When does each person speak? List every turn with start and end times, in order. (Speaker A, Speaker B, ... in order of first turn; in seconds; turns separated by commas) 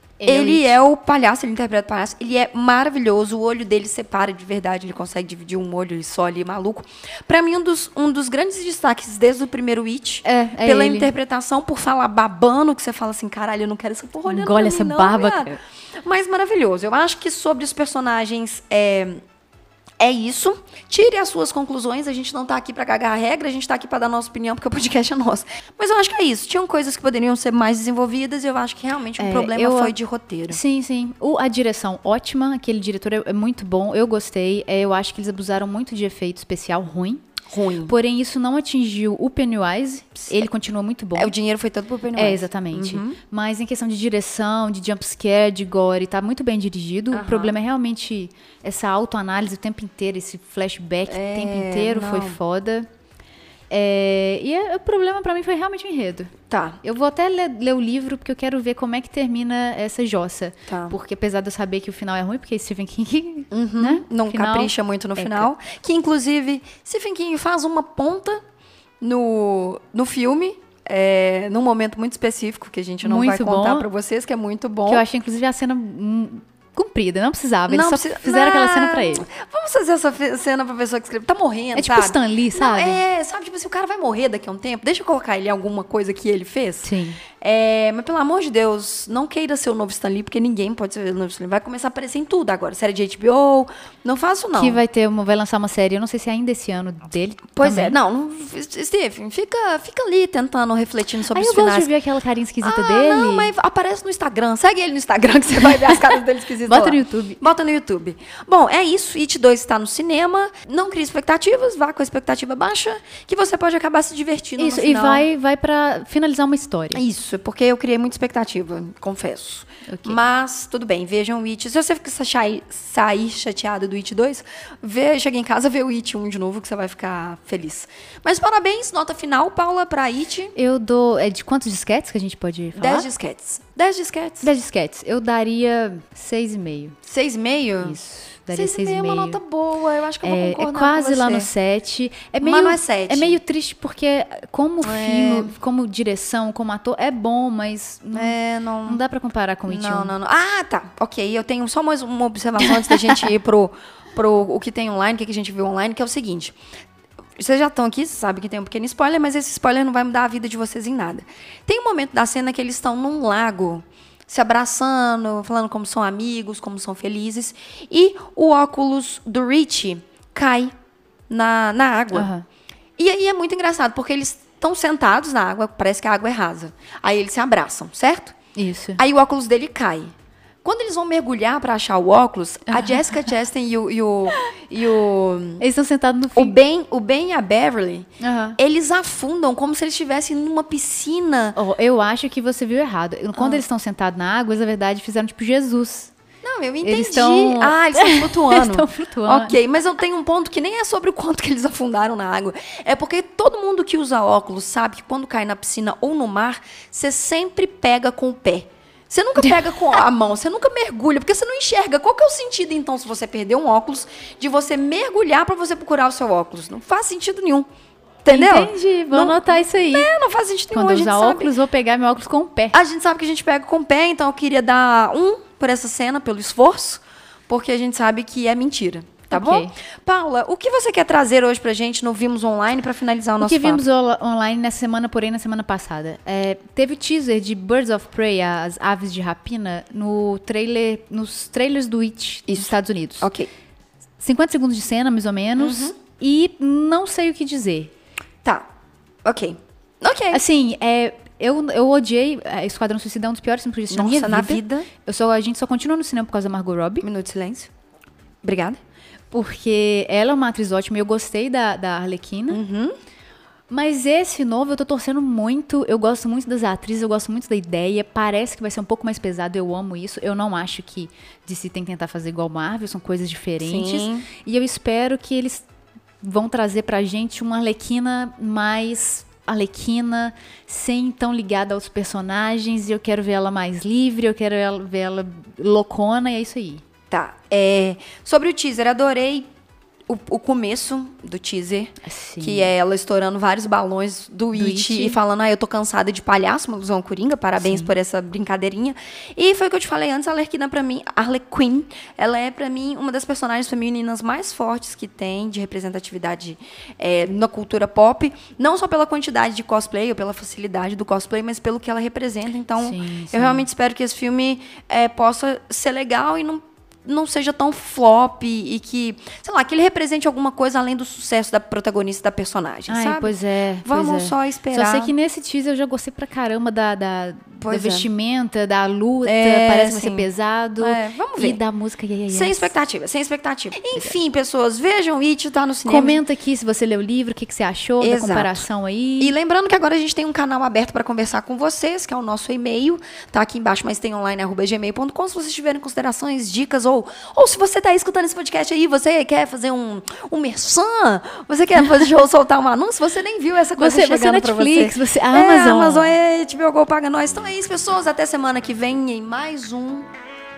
Speaker A: 0.2-0.8, Speaker B: 0.2-19.2, Speaker A: 10.2-11.1, Speaker A: 14.2-15.6, Speaker B: 20.0-30.6, Speaker A: 29.2-29.9, Speaker A: 30.5-37.2, Speaker B: 37.5-37.9, Speaker A: 37.9-41.3, Speaker B: 41.2-43.2, Speaker A: 42.1-52.9, Speaker B: 47.1-47.5, Speaker B: 51.1-52.4, Speaker A: 53.7-65.5, Speaker B: 56.5-56.8, Speaker B: 60.7-60.9, Speaker B: 63.5-68.4, Speaker B: 69.0-75.0, Speaker A: 73.0-73.9, Speaker A: 74.9-79.3, Speaker B: 77.7-94.8, Speaker A: 81.8-83.0, Speaker A: 86.8-87.2, Speaker A: 94.5-98.0, Speaker B: 97.5-101.9, Speaker A: 101.3-103.5, Speaker B: 102.6-115.2, Speaker A: 106.6-107.4, Speaker A: 114.6-117.0, Speaker B: 116.9-130.5, Speaker A: 119.9-120.2, Speaker A: 130.6-133.1, Speaker B: 132.8-134.5, Speaker A: 134.4-136.9, Speaker B: 137.0-138.0, Speaker A: 137.8-139.4, Speaker B: 138.5-141.5, Speaker A: 140.2-150.1, Speaker B: 142.4-143.4, Speaker B: 144.8-145.5, Speaker B: 148.1-149.0, Speaker B: 149.7-156.6, Speaker A: 152.6-153.2, Speaker B: 157.4-170.7, Speaker B: 171.3-172.3, Speaker A: 172.1-172.4, Speaker B: 173.0-178.3, Speaker A: 178.6-179.0, Speaker B: 179.0-180.1, Speaker B: 180.6-185.6, Speaker A: 182.7-183.2, Speaker A: 185.6-186.6, Speaker B: 186.3-191.6, Speaker A: 188.2-188.6, Speaker A: 191.6-196.1, Speaker B: 193.3-193.6, Speaker B: 196.4-217.7, Speaker A: 196.8-199.6, Speaker B: 218.2-221.5, Speaker A: 218.3-220.1, Speaker A: 220.7-222.8, Speaker B: 222.7-233.8, Speaker A: 229.3-229.7, Speaker A: 233.4-243.3, Speaker B: 242.5-243.5, Speaker A: 244.2-247.9, Speaker B: 245.6-245.9, Speaker B: 248.4-248.7, Speaker B: 249.2-250.4, Speaker A: 250.3-257.1, Speaker B: 253.9-254.9, Speaker B: 257.0-257.7, Speaker B: 258.4-258.8, Speaker A: 259.3-262.6, Speaker B: 262.5-262.9, Speaker A: 263.7-275.6, Speaker B: 273.6-274.3, Speaker A: 276.2-286.8, Speaker B: 287.1-289.5, Speaker B: 290.1-325.1, Speaker A: 292.0-292.7, Speaker A: 294.5-295.2, Speaker A: 297.6-297.9, Speaker A: 312.8-313.6, Speaker A: 322.9-332.7, Speaker B: 327.6-328.1, Speaker B: 329.2-331.6, Speaker B: 332.3-336.2, Speaker A: 335.9-339.3, Speaker B: 338.0-338.6, Speaker B: 339.2-360.1, Speaker A: 353.8-356.1